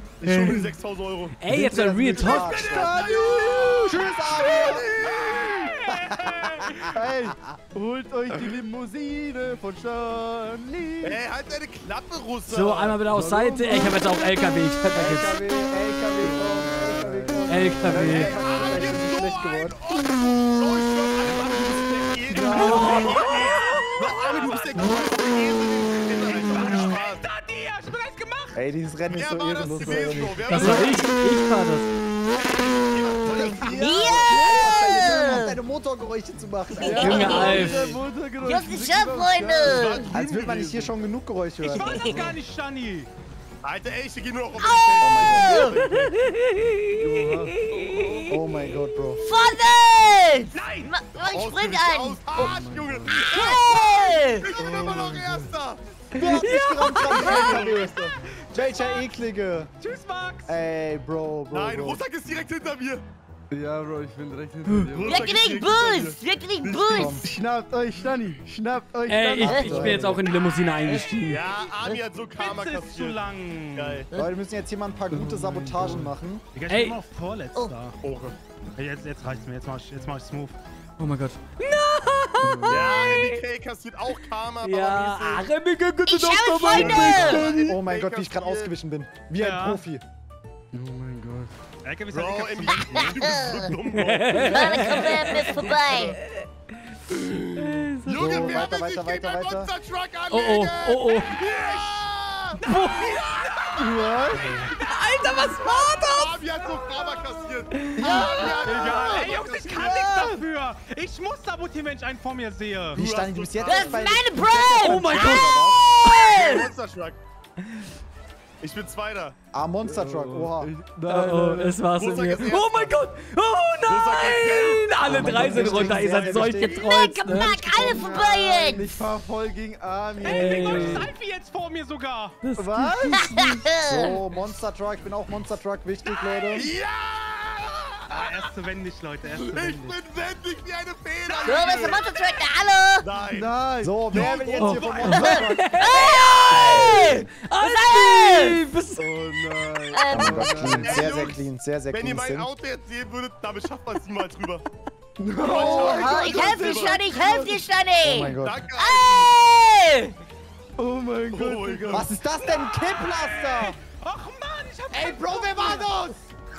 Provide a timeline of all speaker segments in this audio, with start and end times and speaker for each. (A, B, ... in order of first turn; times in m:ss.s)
0:00.2-0:01.4 A
0:00.3-0:00.6 B
0:01.4-0:02.6 C
0:01.5-0:03.2 B
0:02.2-0:05.7 A
0:02.3-0:04.1 D
0:03.8-0:04.9 B
0:05.2-0:06.8 E
0:05.9-0:07.6 B
0:06.9-0:11.2 D
0:11.0-0:13.0 A
0:12.5-0:15.4 C
0:13.0-0:14.1 D
0:14.9-0:19.8 B
0:16.2-0:19.0 D
0:17.5-0:18.3 C
0:17.9-0:27.2 A
0:22.3-0:25.2 E
0:22.4-0:23.1 B
0:22.5-0:23.9 C
0:26.0-0:28.6 E
0:28.5-0:30.9 B
0:29.1-0:31.1 A
0:29.6-0:30.4 D
0:30.5-0:31.9 C
0:32.3-0:34.2 A
0:33.2-0:37.6 B
0:33.6-0:34.4 D
0:33.6-0:35.6 F
0:36.8-0:37.7 F
0:36.8-0:40.0 D
0:37.0-0:37.9 C
0:37.3-0:38.0 E
0:37.4-0:37.9 A
0:38.4-0:40.2 F
0:39.6-0:41.0 A
0:40.1-0:42.0 B
0:41.6-0:42.1 A
0:41.7-0:42.2 F
0:41.8-0:43.1 E
0:42.0-0:42.4 D
0:43.6-0:46.3 A
0:44.6-0:48.4 F
0:45.0-0:45.7 B
0:46.9-0:48.3 D
0:48.3-0:49.2 B
0:49.2-0:52.6 F
0:50.5-0:50.9 E
0:51.2-0:55.8 A
0:52.4-0:53.3 D
0:53.2-0:54.5 F
0:54.6-0:55.5 D
0:56.1-0:59.7 B
0:56.4-0:57.7 F
0:57.0-0:57.9 A
0:59.8-1:00.6 E
1:00.5-1:02.0 B
1:01.5-1:03.0 A
1:03.5-1:05.2 D
1:04.9-1:07.2 A
1:05.0-1:07.2 F
1:06.9-1:07.2 B
1:07.2-1:10.2 D
1:09.1-1:11.4 C
1:09.4-1:10.2 B
1:09.4-1:09.8 F
1:11.2-1:13.2 A
1:12.4-1:14.0 E
1:13.7-1:14.1 A
1:14.1-1:16.4 B
1:15.1-1:16.1 D
1:16.5-1:18.0 E
1:16.7-1:17.0 C
1:18.0-1:18.4 A
1:18.8-1:20.6 E
1:21.0-1:23.4 C
1:22.4-1:23.2 D
1:22.7-1:25.4 A
1:24.6-1:27.5 C
1:26.1-1:27.5 F
1:26.7-1:28.7 A
1:27.2-1:30.0 B
1:29.4-1:29.8 E
1:30.7-1:31.5 D
1:31.8-1:33.2 E
1:32.1-1:36.2 A
1:32.9-1:33.7 F
1:33.9-1:35.5 C
1:34.3-1:36.2 F
1:37.3-1:43.2 A
1:37.5-1:38.6 C
1:38.1-1:39.7 B
1:40.3-1:41.4 C
1:41.5-1:42.0 E
1:42.6-1:43.3 C
1:43.0-1:44.7 E
1:43.8-1:44.6 D
1:44.5-1:46.2 C
1:44.7-1:46.3 F
1:45.7-1:50.3 A
1:48.0-1:48.7 D
1:48.0-1:50.4 F
1:48.4-1:53.0 E
1:52.9-1:55.8 B
1:52.9-1:54.2 A
1:53.6-1:56.7 F
1:54.8-1:55.5 C
1:55.1-1:55.4 E
1:56.0-1:57.2 A
1:56.1-1:56.4 C
1:58.6-1:59.4 A
1:59.5-2:00.7 B
1:59.8-2:01.9 D
2:01.0-2:07.6 C
2:01.9-2:03.0 A
2:03.8-2:06.5 A
2:05.0-2:08.2 B
2:05.2-2:06.0 D
2:06.5-2:09.0 F
2:07.7-2:11.1 D
2:10.2-2:12.4 E
2:10.2-2:11.1 C
2:12.4-2:13.6 C
2:12.6-2:13.3 D
2:13.1-2:14.2 F
2:13.9-2:16.7 B
2:16.4-2:18.5 A
2:18.1-2:20.0 E
2:19.4-2:22.1 A
2:21.4-2:23.0 F
2:23.0-2:23.5 A
2:23.3-2:24.4 D
2:23.8-2:27.0 B
2:24.1-2:25.4 A
2:24.6-2:29.1 C
2:25.0-2:28.6 F
2:29.0-2:31.2 D
2:29.9-2:31.0 F
2:30.1-2:32.5 B
2:30.6-2:34.6 A
2:35.2-2:37.6 D
2:35.4-2:37.1 A
2:35.6-2:36.0 B
2:35.6-2:40.1 F
2:38.0-2:38.6 B
2:38.4-2:39.3 A
2:40.8-2:42.2 D
2:41.3-2:42.2 A
2:41.9-2:43.8 B
2:42.5-2:45.9 E
2:44.9-2:46.2 B